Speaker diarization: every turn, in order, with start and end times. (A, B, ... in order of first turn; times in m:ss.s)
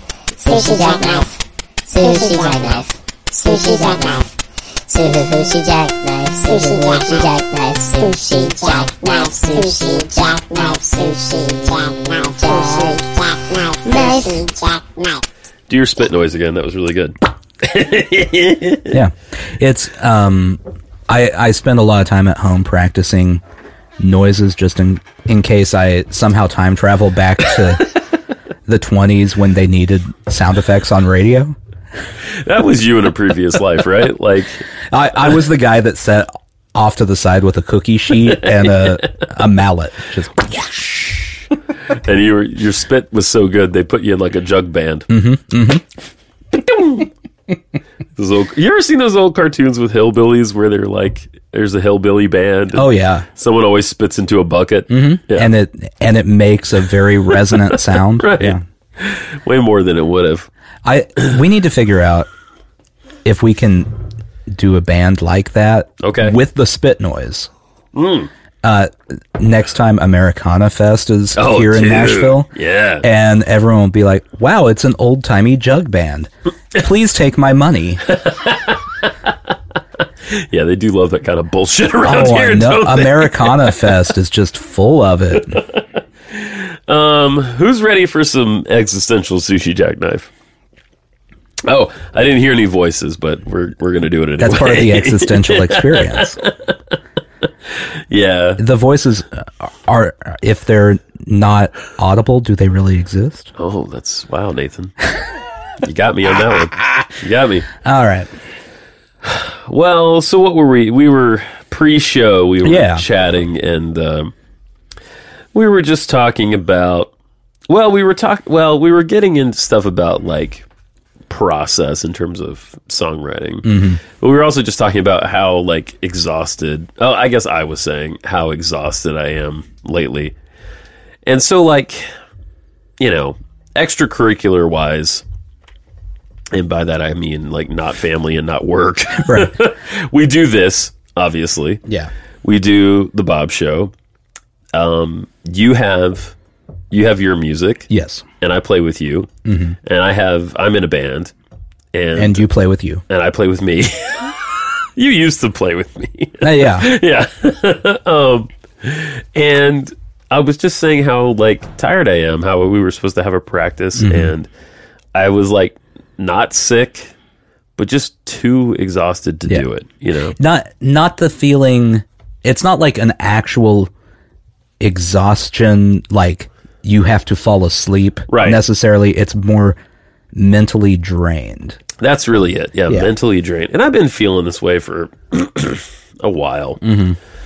0:00.4-0:01.4 A
0:01.9-0:04.3 A
0:04.9-0:15.2 A
0:15.7-0:19.0 B
0:18.9-0:23.4 C
0:24.0-0:28.0 C
0:28.7-0:31.6 C
0:32.3-0:34.6 B
0:34.9-0:40.8 C
0:41.9-0:45.1 B
0:45.1-0:45.9 C
0:46.7-0:47.0 B
0:48.2-0:55.5 B
0:52.8-0:53.3 C
0:54.9-0:58.6 C
0:57.6-1:00.5 B
1:00.8-1:02.3 C
1:03.2-1:04.0 C
1:04.5-1:07.5 C
1:06.0-1:06.4 B
1:07.9-1:08.3 B
1:08.6-1:12.5 C
1:11.4-1:13.1 B
1:13.0-1:18.0 C
1:18.1-1:19.3 B
1:20.3-1:23.8 B
1:22.0-1:25.6 C
1:26.3-1:30.3 B
1:31.6-1:36.8 B
1:34.4-1:36.4 C
1:38.1-1:38.6 B
1:38.6-1:43.5 C
1:43.6-1:44.9 B
1:45.8-1:47.7 B
1:47.8-1:48.3 C
1:49.2-1:54.3 B
1:52.6-1:53.0 C
1:55.5-1:57.1 B
1:57.7-2:00.7 B
2:01.3-2:10.4 B
2:03.6-2:04.0 C
2:11.3-2:12.1 B
2:13.0-2:15.2 B
2:16.5-2:21.8 B
2:19.2-2:19.5 C
2:21.9-2:22.1 C
2:22.4-2:23.9 B
2:24.7-2:26.4 B
2:26.9-2:27.9 B
2:27.9-2:28.2 C
2:28.4-2:29.3 B
2:29.5-2:29.8 C
2:29.8-2:31.3 B
2:31.9-2:32.4 B
2:32.2-2:33.0 C
2:33.1-2:44.5 B
2:36.4-2:36.9 C
2:44.0-2:44.3 C
2:45.2-2:47.1 B
2:47.8-2:50.4 B
2:50.4-2:53.9 C
2:54.8-2:59.8 C
2:58.3-2:58.6 B
3:00.3-3:01.8 C
3:02.0-3:06.8 B
3:06.8-3:07.2 C